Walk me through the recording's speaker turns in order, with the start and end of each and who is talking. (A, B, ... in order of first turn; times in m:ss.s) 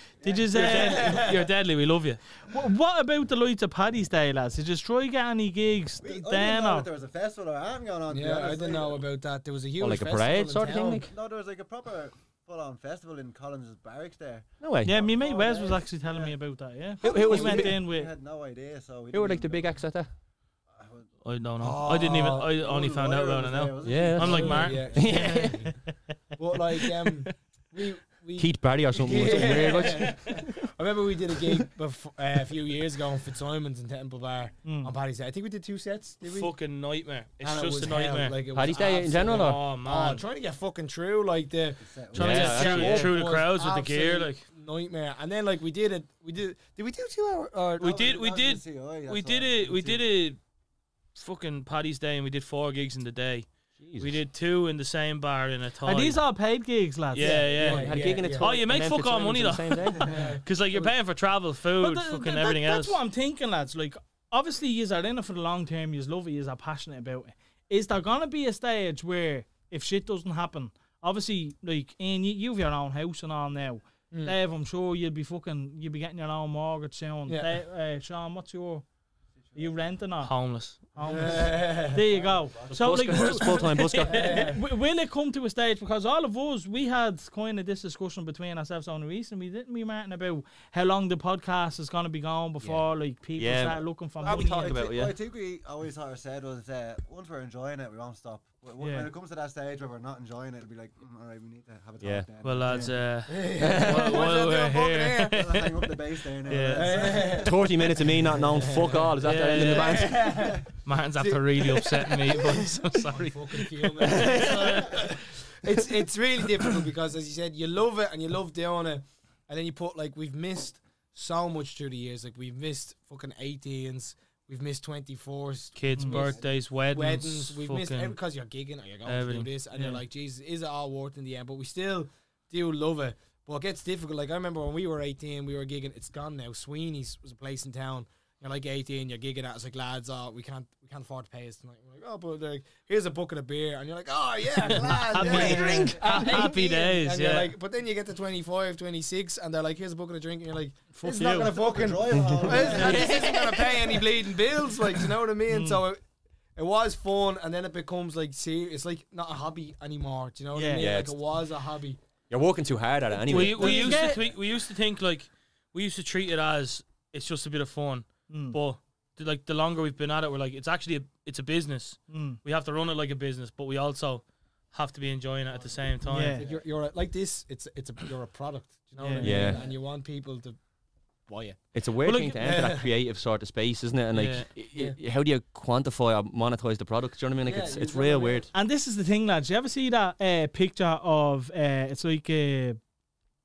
0:00.2-0:01.2 A
0:00.2-0:01.5 B
0:00.5-0:02.2 C
0:02.5-0:06.9 A
0:06.0-0:09.0 D
0:08.1-0:11.0 B
0:09.8-0:11.1 E
0:11.1-0:16.4 D
0:14.6-0:14.9 E
0:14.8-0:18.1 A
0:17.0-0:17.7 E
0:17.0-0:19.8 D
0:19.1-0:20.1 E
0:20.7-0:21.1 D
0:21.2-0:25.0 C
0:21.6-0:22.6 B
0:22.5-0:25.4 D
0:23.8-0:25.7 E
0:24.2-0:25.7 B
0:26.4-0:36.5 B
0:28.4-0:30.6 E
0:30.0-0:30.3 C
0:34.6-0:34.9 A
0:36.2-0:38.4 C
0:37.4-0:48.2 B
0:38.5-0:39.6 E
0:39.3-0:40.2 C
0:41.8-0:42.8 D
0:42.1-0:43.1 E
0:42.1-0:44.4 C
0:47.8-0:50.1 D
0:47.8-0:50.4 C
0:51.1-0:56.2 C
0:53.8-0:54.1 E
0:55.8-0:57.5 A
0:57.1-1:03.0 C
0:57.2-0:58.6 B
0:57.6-1:00.2 E
1:00.0-1:00.9 B
1:01.8-1:18.8 A
1:14.1-1:14.4 B
1:17.3-1:17.6 B
1:19.5-1:20.3 A
1:20.2-1:20.8 C
1:20.9-1:34.8 A
1:21.0-1:22.0 B
1:22.0-1:23.1 D
1:22.7-1:24.5 E
1:24.0-1:24.6 B
1:33.3-1:35.2 E
1:34.2-1:43.0 D
1:38.8-1:39.1 A
1:42.0-1:42.3 E
1:42.4-1:47.1 C
1:43.3-1:45.4 B
1:43.6-1:44.3 E
1:45.3-1:47.5 D
1:46.8-2:36.0 B
1:47.1-1:50.4 E
1:49.2-1:55.1 C
1:54.0-1:54.8 E
2:05.8-2:08.2 C
2:06.0-2:06.5 D
2:09.0-2:09.5 C
2:09.7-2:10.0 A
2:24.6-2:27.6 C
2:25.2-2:26.1 A
2:30.9-2:31.7 A
2:31.5-2:33.3 D
2:32.2-2:34.0 E
2:35.5-2:35.8 A
2:36.6-2:42.0 B
2:40.5-2:40.9 A
2:40.7-2:41.2 E
2:42.3-2:44.1 E
2:43.2-2:56.4 C
2:43.3-2:44.2 A
2:48.3-2:48.6 A
2:52.1-2:52.4 A
2:56.0-3:00.6 B
2:56.0-2:56.4 A
2:59.0-2:59.6 A
2:59.2-2:59.7 E
3:01.3-3:02.9 B
3:01.7-3:08.5 E
3:04.1-3:04.5 C
3:04.7-3:05.0 B
3:07.4-3:08.5 B
3:08.5-3:12.8 A